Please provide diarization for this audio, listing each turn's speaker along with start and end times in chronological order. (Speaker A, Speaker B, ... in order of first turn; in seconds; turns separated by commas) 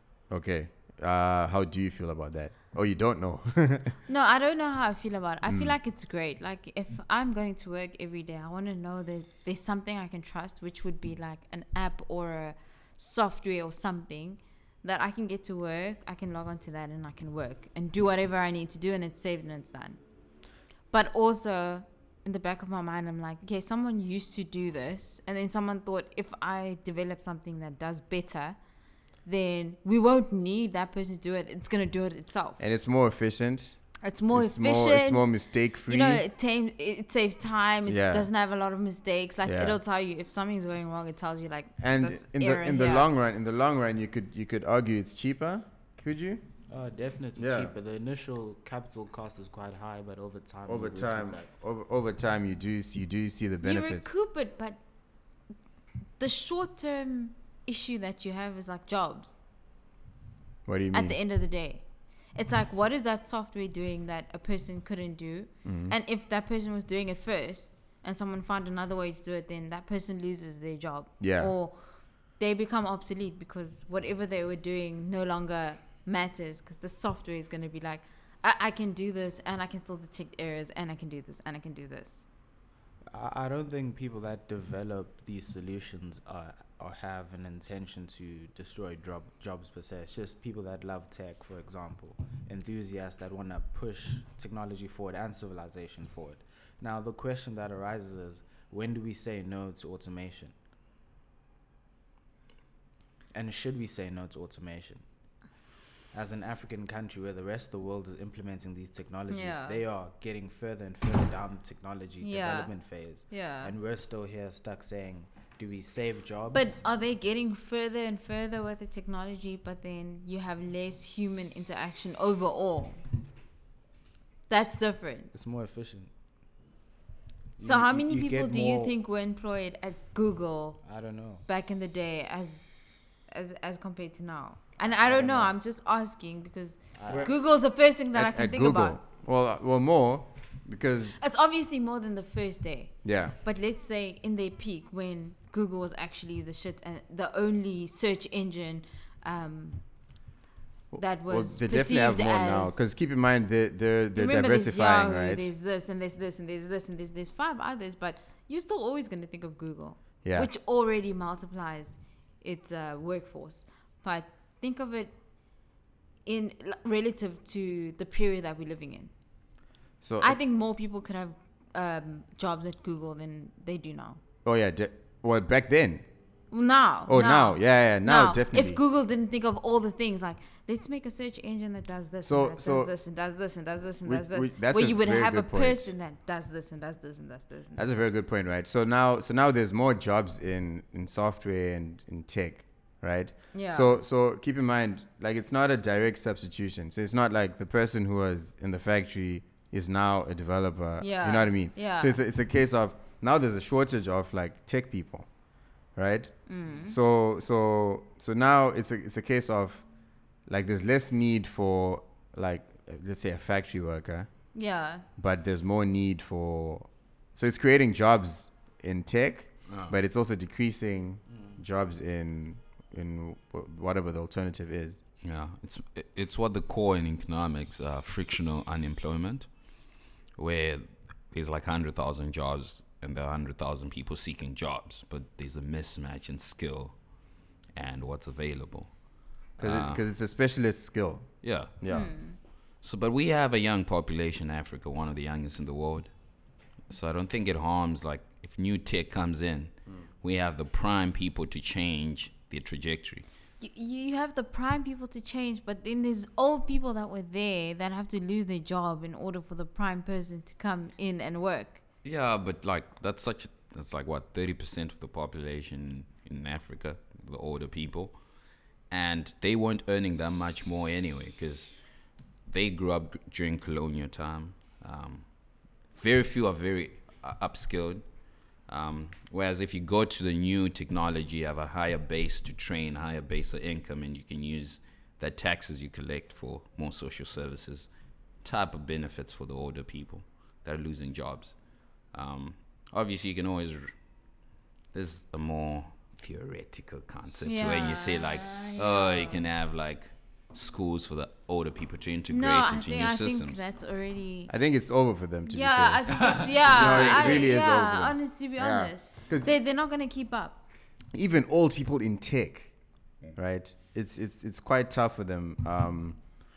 Speaker A: 0.3-4.0, Speaker B: 4.1-20.0, Speaker A: 5.5-5.8, Speaker B: 20.9-28.6, Speaker B: 29.2-32.6, Speaker A: 32.6-36.2, Speaker B: 34.0-35.3, Speaker B: 35.9-43.1, Speaker A: 37.9-38.3, Speaker A: 39.4-39.8, Speaker A: 41.8-46.4, Speaker C: 46.7-51.5, Speaker A: 47.3-47.7, Speaker A: 50.6-54.0, Speaker B: 53.6-54.8, Speaker B: 56.2-59.4, Speaker A: 60.6-61.1, Speaker B: 60.9-61.8, Speaker B: 62.3-82.2, Speaker A: 65.6-65.9, Speaker A: 71.2-71.5, Speaker C: 83.1-100.5, Speaker C: 103.3-105.0, Speaker C: 106.1-116.8, Speaker B: 109.3-109.8, Speaker B: 112.2-112.7, Speaker B: 113.3-113.7, Speaker B: 116.5-123.0, Speaker B: 124.5-125.3, Speaker C: 125.3-126.1, Speaker C: 127.6-128.9, Speaker B: 127.6-130.8, Speaker C: 130.8-131.4, Speaker B: 131.4-132.7, Speaker B: 133.3-139.0, Speaker C: 135.0-135.5, Speaker C: 136.9-137.3, Speaker A: 137.1-137.3, Speaker A: 138.1-141.2, Speaker B: 141.2-149.8, Speaker A: 143.0-143.3, Speaker A: 150.9-155.5, Speaker B: 150.9-152.8, Speaker B: 154.1-165.1, Speaker A: 160.2-160.5, Speaker B: 166.2-169.1, Speaker A: 170.0-170.4, Speaker B: 170.2-174.2, Speaker A: 174.4-176.0, Speaker B: 176.5-188.1, Speaker A: 177.1-178.8, Speaker A: 182.2-182.9, Speaker A: 184.0-185.9, Speaker A: 187.8-205.3, Speaker B: 193.5-193.9, Speaker B: 201.0-202.2, Speaker A: 205.9-209.8, Speaker B: 206.5-207.0, Speaker A: 210.5-214.3, Speaker B: 214.5-215.0, Speaker A: 215.2-225.0, Speaker D: 225.2-229.5, Speaker D: 230.3-236.9, Speaker D: 237.7-239.0, Speaker D: 239.6-240.0, Speaker A: 239.6-242.1, Speaker D: 241.4-241.7, Speaker B: 241.9-242.4, Speaker D: 242.8-246.1, Speaker D: 246.9-253.2, Speaker B: 253.6-261.8, Speaker D: 262.0-268.2, Speaker D: 268.9-271.8, Speaker D: 272.5-287.9, Speaker D: 288.4-293.9, Speaker D: 294.9-303.6, Speaker B: 297.4-299.4, Speaker B: 302.3-304.5, Speaker A: 304.5-309.5, Speaker B: 305.5-310.6, Speaker D: 306.1-307.5, Speaker A: 311.1-312.7, Speaker A: 313.3-316.2